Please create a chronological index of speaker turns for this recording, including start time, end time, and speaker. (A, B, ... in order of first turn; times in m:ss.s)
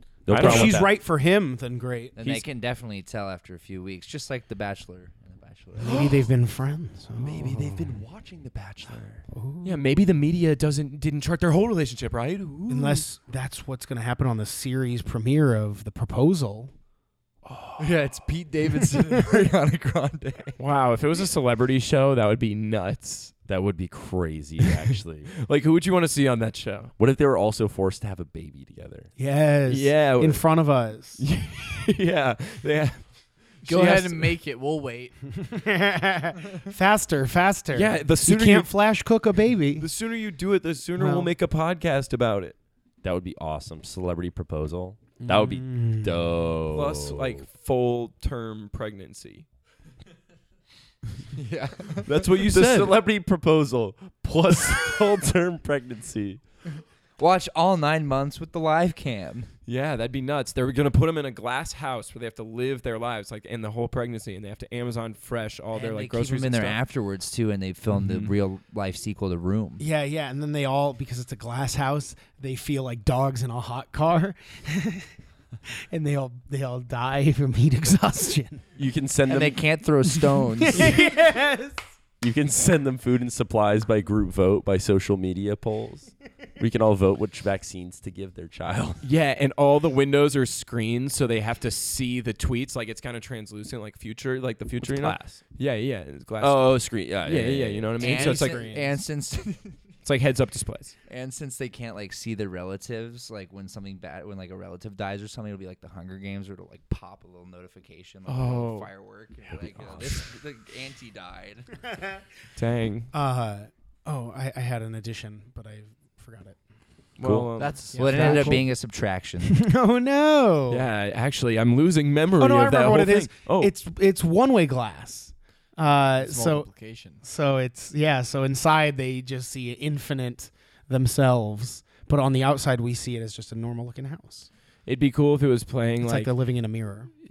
0:00.2-0:00.9 A
0:00.3-0:00.8 B
0:00.3-0:02.2 C
0:02.2-0:06.1 D
0:05.8-0:08.0 C
0:07.1-0:09.2 A
0:09.3-0:09.8 C
0:09.6-0:13.0 B
0:12.7-0:16.7 C
0:17.8-0:19.2 E
0:17.8-0:20.6 D
0:20.6-0:23.3 B
0:23.4-0:25.3 A
0:24.6-0:26.9 B
0:27.0-0:29.1 A
0:29.2-0:31.2 C
0:29.7-0:30.5 B
0:31.2-0:34.3 B
0:33.6-0:35.2 E
0:35.4-0:39.9 C
0:37.7-0:38.7 B
0:39.8-0:42.6 B
0:41.0-0:41.3 C
0:43.0-0:47.4 A
0:45.2-0:46.4 C
0:46.7-0:49.4 B
0:51.4-0:52.1 D
0:52.0-0:56.4 A
0:52.1-0:53.0 B
0:57.2-0:59.5 D
0:59.7-1:06.8 B
1:05.7-1:09.8 D
1:07.9-1:08.3 B
1:09.8-1:15.1 C
1:15.9-1:18.7 C
1:18.8-1:19.6 A
1:19.2-1:20.9 D
1:20.1-1:21.8 C
1:22.2-1:29.0 A
1:29.0-1:38.8 B
1:34.8-1:35.4 A
1:36.4-1:38.1 A
1:38.0-1:39.8 D
1:38.3-1:38.8 E
1:40.0-1:40.9 B
1:41.1-1:51.7 D
1:48.2-1:48.9 B
1:49.7-1:50.1 B
1:52.6-1:53.1 B
1:53.1-1:56.6 C
1:57.2-1:57.9 B
1:57.2-1:57.5 A
1:57.6-1:58.6 E
1:57.6-1:59.6 D
1:57.9-1:58.7 C
1:59.4-2:00.9 C
2:00.7-2:03.7 B
2:02.4-2:06.7 C
2:06.2-2:07.2 E
2:07.2-2:14.5 C
2:14.8-2:16.3 B
2:16.0-2:17.1 C